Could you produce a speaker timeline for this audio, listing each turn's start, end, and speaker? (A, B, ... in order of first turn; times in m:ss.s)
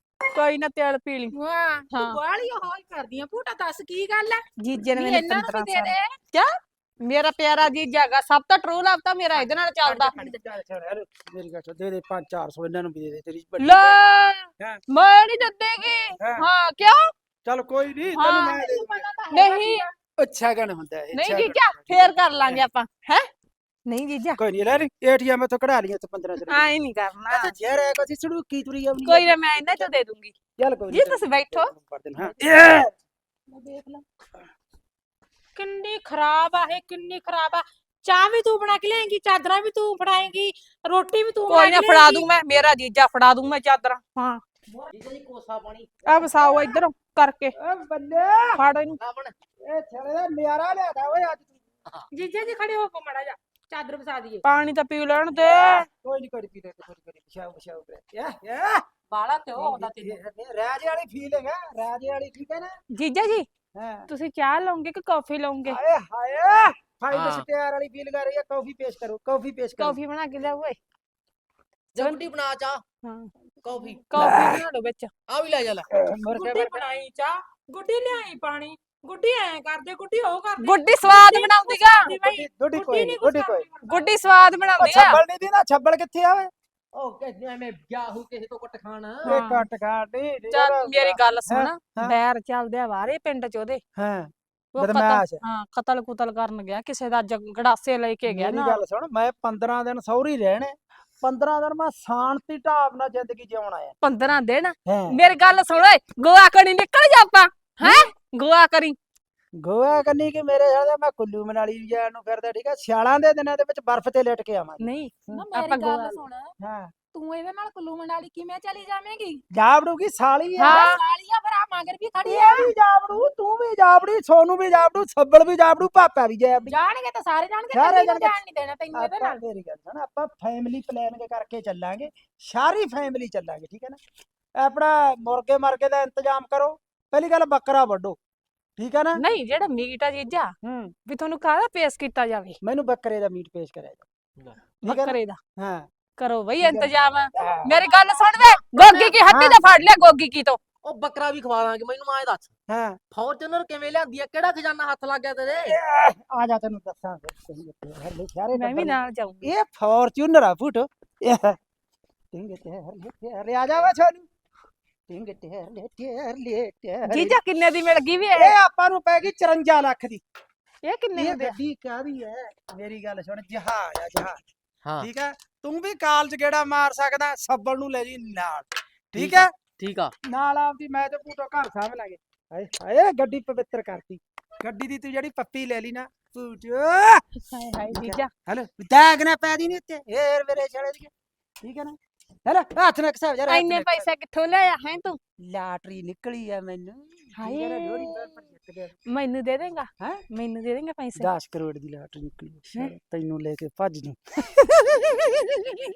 0:00.3-0:01.3 A
0:01.3-0:06.2 B
0:01.9-0:02.2 A
0:04.6-0:05.6 A
0:05.3-0:05.9 C
0:06.3-0:10.2 A
0:09.8-0:14.0 C
0:09.9-0:10.3 B
0:13.6-0:17.1 A
0:17.4-0:19.0 C
0:18.2-0:19.9 B
0:18.2-0:18.5 A
0:19.3-0:19.9 A
0:20.2-0:22.6 C
0:21.1-0:23.3 A
0:23.9-0:24.4 A
0:24.4-0:26.7 C
0:26.4-0:27.5 A
0:27.3-0:29.9 C
0:29.0-0:30.3 A
0:30.6-0:32.9 C
0:30.9-0:31.7 A
0:33.5-0:34.0 B
0:35.6-0:42.3 B
0:41.5-0:44.4 A
0:44.9-0:46.0 D
0:46.0-0:47.6 A
0:46.2-0:46.8 C
0:47.6-0:48.6 C
0:48.6-0:49.0 A
0:49.0-0:49.3 D
0:49.7-0:51.6 C
0:52.1-0:54.4 B
0:54.4-0:55.9 A
0:55.4-0:58.8 C
0:59.1-1:00.2 B
0:59.6-1:02.7 C
1:02.9-1:03.5 A
1:03.8-1:04.1 C
1:04.1-1:05.8 A
1:05.6-1:10.0 C
1:07.1-1:07.4 D
1:09.8-1:10.8 A
1:11.9-1:12.8 D
1:12.0-1:12.2 A
1:13.0-1:13.3 A
1:13.6-1:14.1 D
1:14.1-1:15.1 A
1:14.2-1:14.6 C
1:15.3-1:15.9 D
1:15.9-1:16.8 C
1:16.3-1:24.1 B
1:20.6-1:22.1 A
1:22.0-1:23.7 C
1:23.9-1:25.2 A
1:24.8-1:26.5 C
1:26.9-1:29.4 D
1:29.2-1:29.7 A
1:29.2-1:32.2 C
1:30.5-1:33.8 A
1:34.0-1:35.4 C
1:34.8-1:38.8 A
1:38.3-1:43.9 C
1:44.0-1:49.0 A
1:44.9-1:45.2 C
1:47.8-1:48.1 C
1:49.6-1:55.4 C
1:54.8-1:56.2 A
1:55.3-1:56.5 B
1:56.6-1:56.9 C
1:57.1-1:59.4 B
1:59.5-2:00.8 C
2:00.6-2:01.0 A
2:00.6-2:02.7 B
2:02.2-2:06.8 C
2:06.7-2:09.4 B
2:07.7-2:08.4 C
2:08.9-2:14.0 C
2:14.6-2:18.2 C
2:18.8-2:19.2 C
2:19.2-2:20.5 A
2:20.6-2:21.0 C
2:21.1-2:22.6 A
2:22.6-2:24.1 C
2:24.8-2:25.9 C
2:24.8-2:25.4 A
2:26.2-2:30.6 A
2:26.6-2:27.8 C
2:27.7-2:29.2 D
2:29.3-2:29.6 C
2:30.8-2:32.5 D
2:32.7-2:33.0 C
2:33.1-2:35.8 D
2:35.6-2:41.6 C
2:38.5-2:39.5 A
2:42.3-2:44.3 C
2:45.1-2:47.4 C
2:47.0-2:48.6 A
2:48.3-2:50.2 C
2:50.8-2:51.6 A
2:51.1-2:54.4 C
2:55.0-2:59.5 C
2:59.2-3:00.1 D
3:00.3-3:07.3 C
3:07.5-3:08.3 A
3:07.9-3:14.1 C
3:13.5-3:15.2 A
3:15.4-3:19.0 C
3:17.4-3:18.3 A
3:19.1-3:21.3 A
3:21.2-3:24.5 C
3:24.6-3:25.8 A